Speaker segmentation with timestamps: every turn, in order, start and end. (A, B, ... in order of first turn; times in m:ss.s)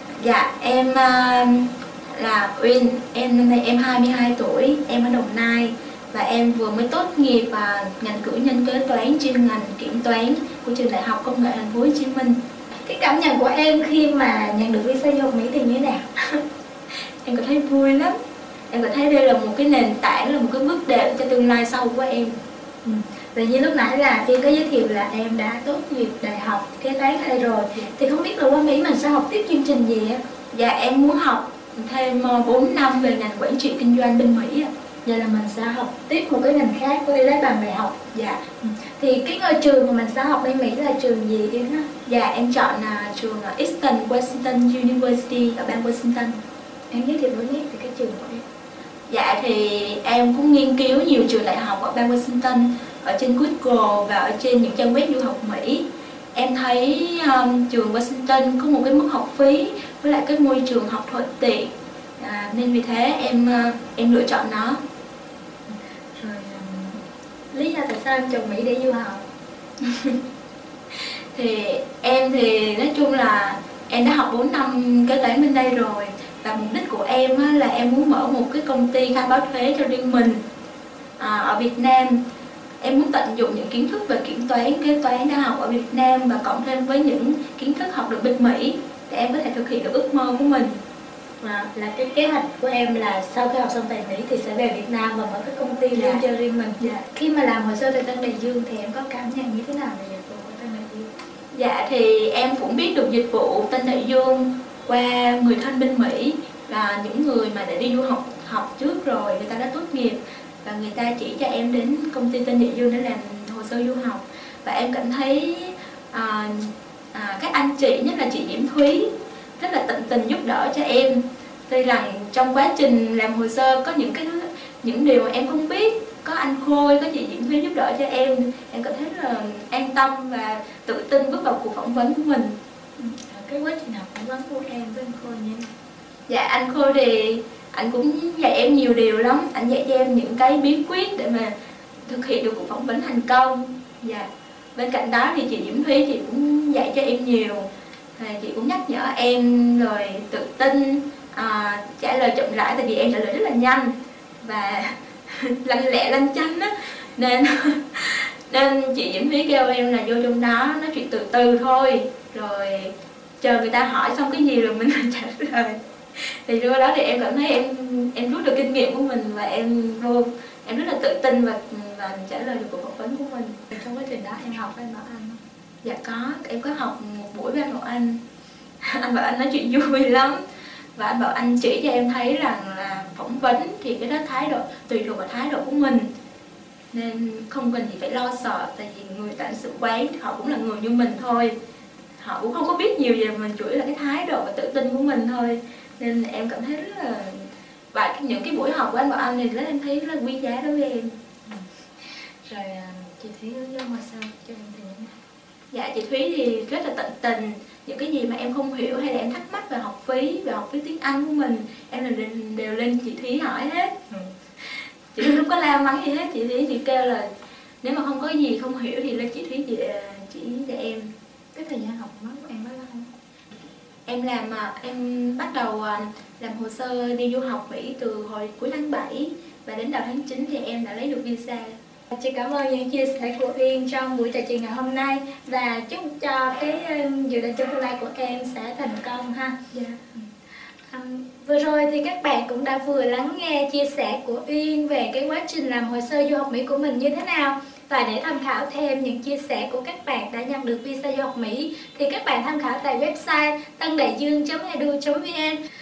0:00.2-0:12.4 A
0:12.8-0:16.0 B
0:17.2-0:18.2 A
0:18.7-0:22.4 A
0:22.8-0:30.2 B
0:30.5-0:34.7 A
0:35.0-0:38.0 B
0:38.1-0:38.4 A
0:38.6-0:41.9 B
0:42.1-0:46.4 A
0:46.9-0:48.4 B
0:49.1-0:55.8 A
0:56.4-1:04.8 A
1:05.7-1:09.2 B
1:09.8-1:10.2 A
1:11.3-1:20.4 A
1:21.2-1:22.2 A
1:22.8-1:30.7 A
1:31.4-1:41.1 B
1:35.9-1:36.2 A
1:36.8-1:37.0 A
1:41.5-2:12.6 A
2:13.0-2:15.7 B
2:16.3-2:21.5 A
2:22.1-2:53.6 A
2:53.7-2:55.4 B
2:55.8-2:58.2 A
2:58.8-3:00.4 A
3:01.0-3:06.1 A
3:06.9-3:11.6 A
3:12.2-3:21.1 A
3:22.4-3:25.2 B
3:25.7-3:34.0 A
3:34.6-3:37.3 A
3:37.8-3:41.1 A
3:41.6-3:43.1 B
3:44.1-3:51.8 A
3:52.1-3:59.6 B
4:00.9-4:15.6 B